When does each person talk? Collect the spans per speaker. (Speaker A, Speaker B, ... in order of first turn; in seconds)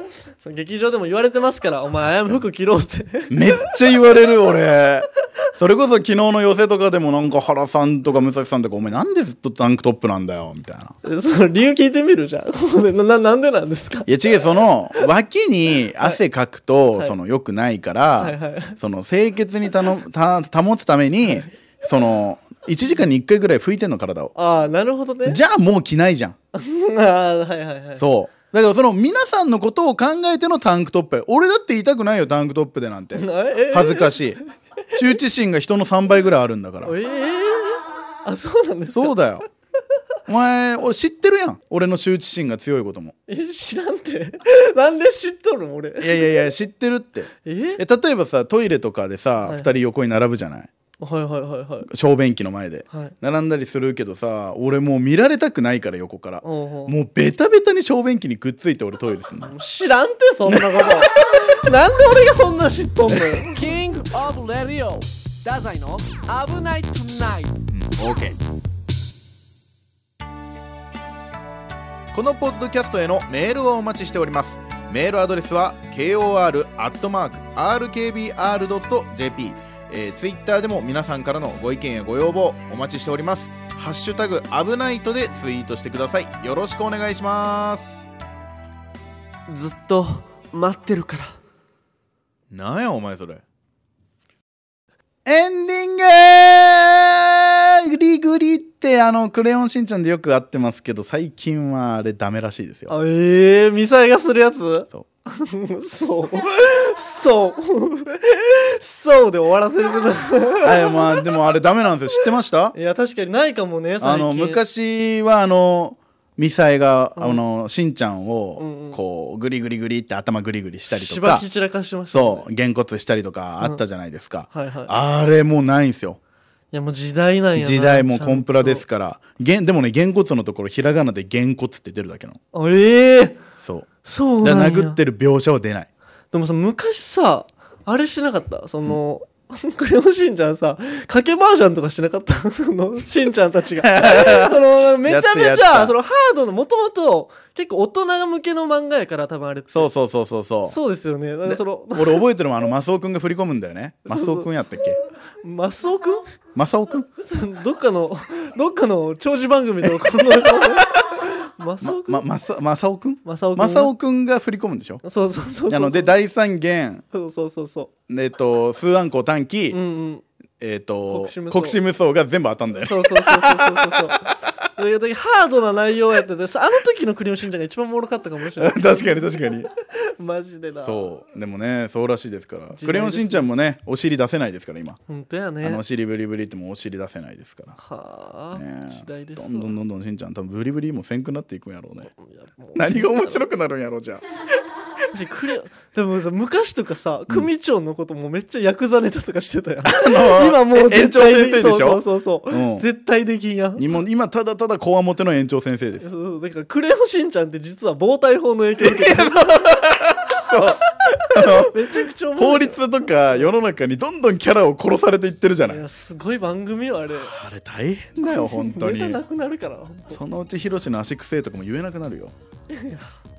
Speaker A: 0.4-3.8, 11.0-14.3, 18.2-18.8, 24.4-25.4, 26.5-28.0, 33.1-34.2, 36.8-39.2, 43.3-46.3, 47.4-47.8, 49.5-49.7, 51.0-51.9, 56.4-57.0, 59.5-63.6, 89.5-91.4, 102.9-111.2, 112.7-114.6, 117.2-117.4, 118.6-119.0, 120.9-122.5, 124.5-124.9, 126.7-128.8, 132.5-133.4, 134.0-135.0, 136.3-149.9, 150.7-152.3, 154.1-154.5, 155.4-156.3, 157.2-162.2, 163.2-163.9, 165.0-166.1, 167.1-167.9, 169.7-170.2, 171.1-171.8, 172.8-179.1, 179.9-181.1, 182.7-183.5, 185.1-185.8, 187.8-189.7, 192.1-193.4, 195.1-203.8, 206.0-209.7, 211.4-213.5, 215.7-217.3, 218.2-220.2, 222.7-223.1
Speaker B: 2.1-2.4, 3.3-10.9, 14.1-24.3, 25.2-26.4, 28.0-34.4, 34.9-36.9, 38.9-39.5, 40.3-43.1, 46.0-50.7, 51.9-59.5, 60.5-61.1, 67.7-68.4, 72.1-88.0, 92.5-93.4, 95.2-102.9, 110.6-112.8, 114.0-121.5, 122.1-126.2, 127.6-132.4, 133.6-133.9, 134.4-135.9, 143.8-145.9, 149.7-150.8, 151.4-155.0, 156.6-157.1, 161.8-165.0, 165.7-167.0, 168.1-169.8, 170.6-174.1, 178.6-179.7, 180.8-185.0, 185.6-187.8, 188.5-192.1, 192.8-194.2, 199.9-202.9, 203.8-206.1, 208.8-215.8, 217.2-219.2, 220.1-222.3
Speaker C: 63.5-67.6